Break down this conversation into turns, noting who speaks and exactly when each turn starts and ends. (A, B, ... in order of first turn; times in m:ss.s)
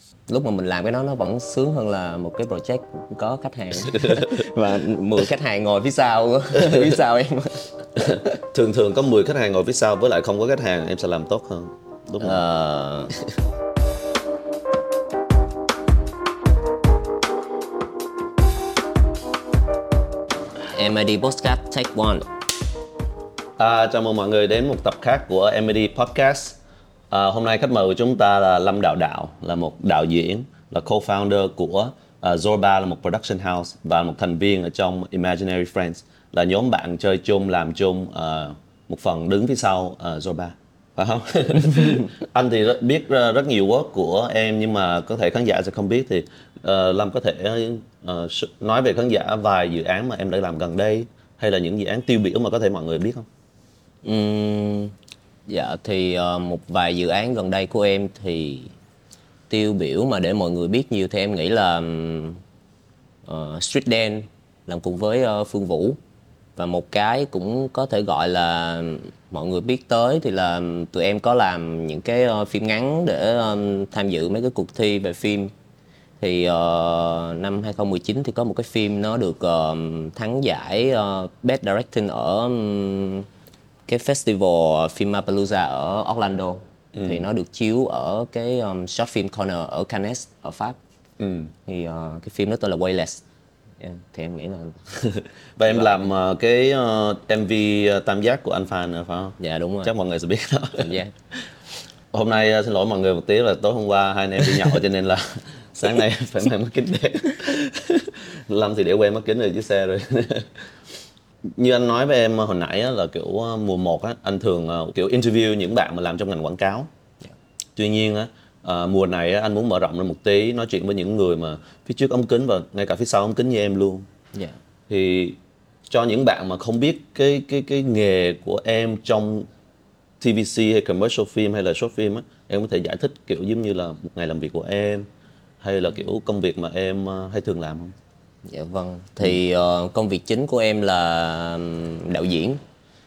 0:00.3-0:08.3 A
0:03.8-0:04.5 B
0:06.5-0:07.0 B
0:08.0-0:12.4 B
0:12.2-0:13.1 A
0:20.7-0:22.2 A
0:23.6-0:26.6 B
0:27.1-0:53.3 B
0:54.0-0:54.9 A
0:55.5-0:58.7 A
0:59.5-1:02.4 A
1:03.3-1:06.0 A
1:06.6-1:15.5 A
1:16.2-1:23.3 A
1:23.9-1:30.8 A
1:27.0-1:27.2 B
1:31.2-1:31.5 B
1:31.7-1:33.2 A
1:33.8-1:34.8 A
1:35.0-1:41.0 B
1:35.7-1:36.1 A
1:39.4-1:39.9 A
1:40.8-1:41.1 A
1:42.1-1:50.7 B
1:51.5-1:56.9 B
1:57.8-2:04.1 B
2:04.9-2:05.4 B
2:05.9-2:09.5 B
2:10.2-2:15.1 B
2:15.6-2:18.0 B
2:18.5-2:22.6 A